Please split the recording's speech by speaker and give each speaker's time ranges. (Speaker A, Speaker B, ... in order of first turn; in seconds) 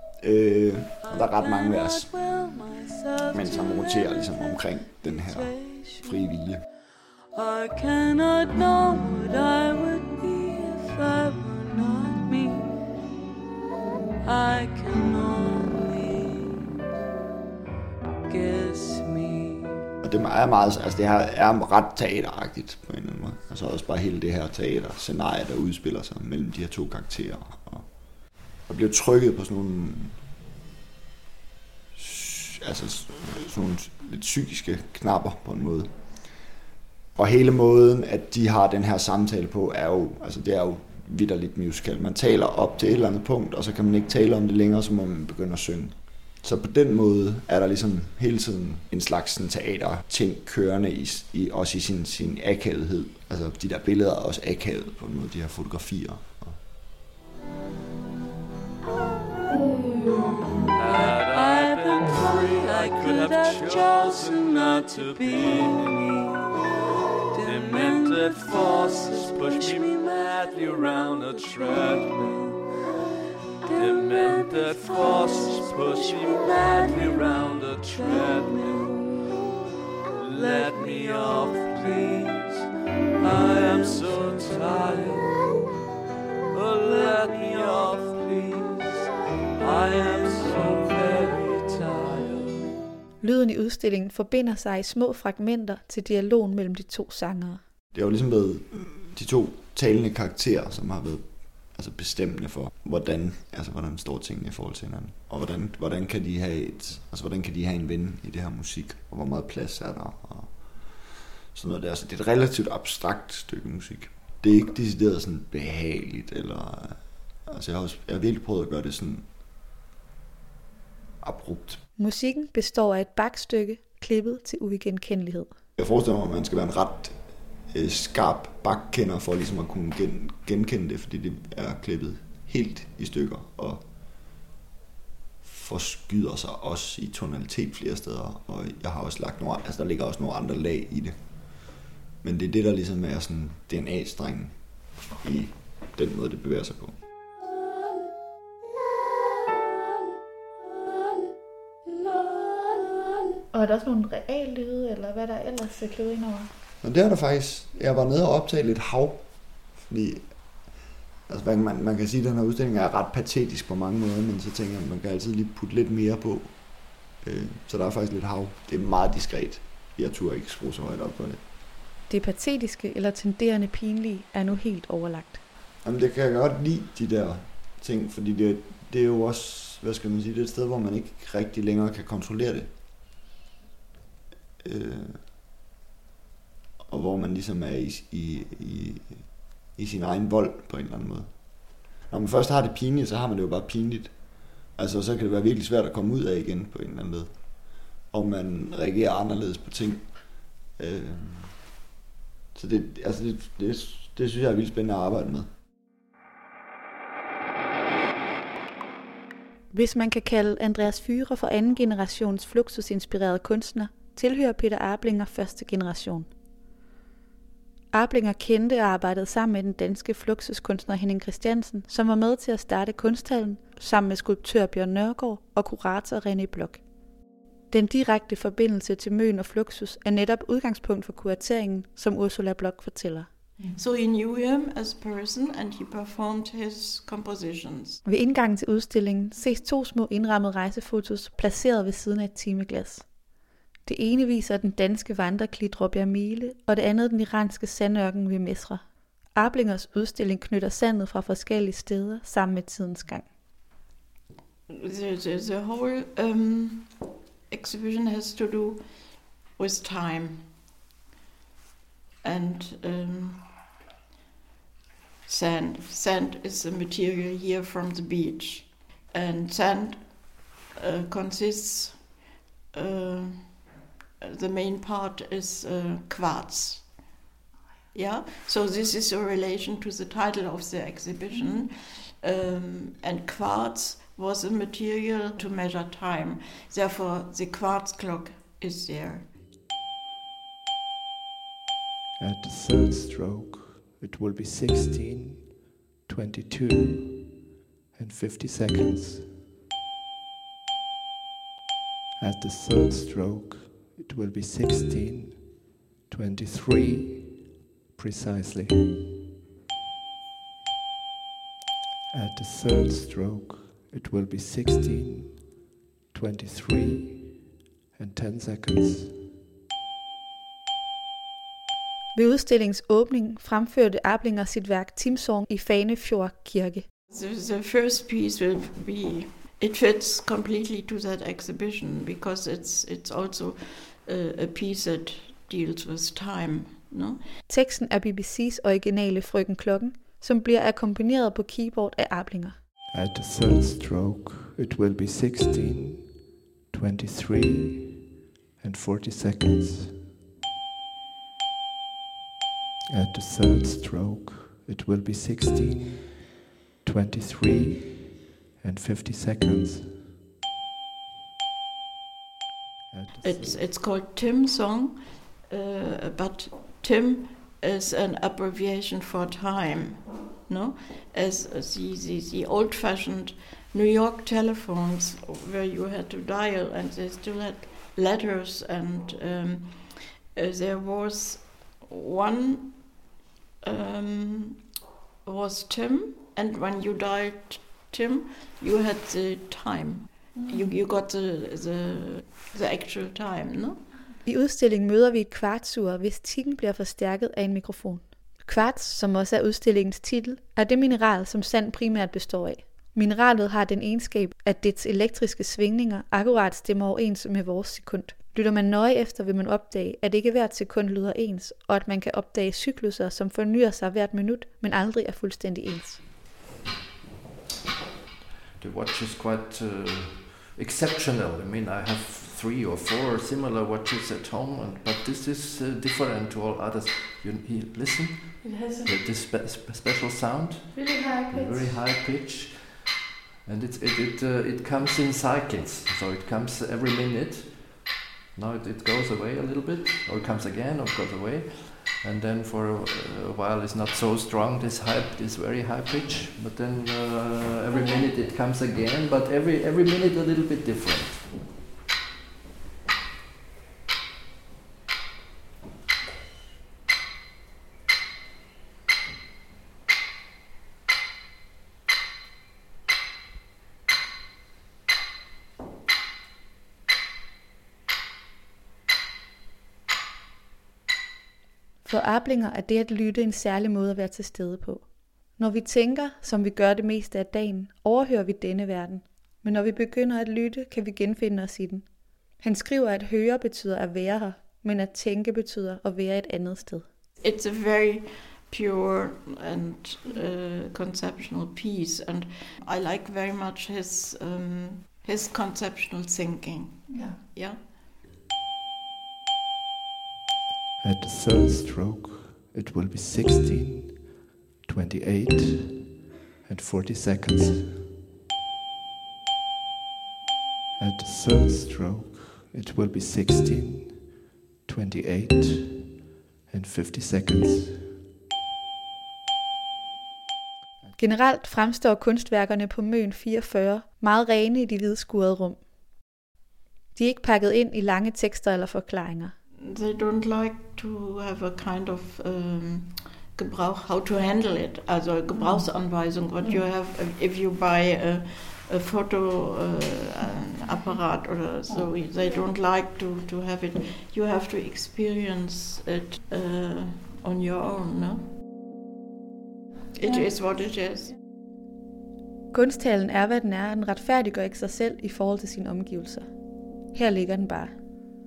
Speaker A: 0.2-2.1, 3.3-6.6, 20.0-27.9, 28.7-30.2, 31.9-35.9, 37.1-56.6, 97.9-110.7, 111.5-119.2, 121.2-121.8, 125.8-127.1, 127.7-133.8, 135.4-141.2, 142.2-144.5, 145.2-146.9, 156.8-159.2, 159.8-160.2, 161.3-166.5, 167.2-171.4, 175.8-182.7, 184.6-185.2, 186.9-189.2, 189.8-191.3, 192.0-194.1, 194.7-197.3, 198.1-200.1, 200.8-201.6, 202.5-205.5
Speaker B: 1.0-6.3, 7.3-12.8, 14.2-16.8, 18.2-19.9, 58.9-66.5, 67.3-79.6, 80.2-81.7, 83.5-84.0
Speaker C: 60.8-66.5, 67.4-72.7, 73.7-79.3, 80.2-82.6, 83.2-85.6, 86.5-92.7
Speaker D: 93.2-97.6, 122.0-125.5, 153.5-156.5, 172.1-175.4, 209.7-216.3, 217.9-226.8, 227.7-233.3, 238.0-243.1, 243.8-248.8, 249.3-253.3, 322.1-326.9, 337.5-342.6, 390.3-390.7, 394.2-416.0, 428.4-428.9, 430.7-431.7, 471.8-474.9, 475.4-481.8, 482.4-486.9, 521.0-525.6, 526.9-529.3, 552.5-556.3, 556.9-557.7
Speaker E: 233.7-238.0, 254.7-256.9, 257.5-258.8, 259.6-260.5, 262.2-263.5, 265.2-272.1, 272.7-273.6, 274.2-276.9, 277.9-289.3, 327.1-337.2, 363.2-383.0, 383.6-384.6, 385.2-393.8, 487.2-497.7, 529.6-548.3, 550.0-551.1
Speaker F: 292.2-297.4, 297.9-299.4, 302.2-305.6, 306.1-309.1, 312.1-315.5, 316.1-319.3, 342.9-346.2, 346.7-348.1, 348.6-350.1, 352.9-356.2, 356.8-360.1, 362.9-363.6, 500.8-504.1, 504.6-507.9, 510.8-514.1, 514.6-518.0
Speaker G: 418.6-451.4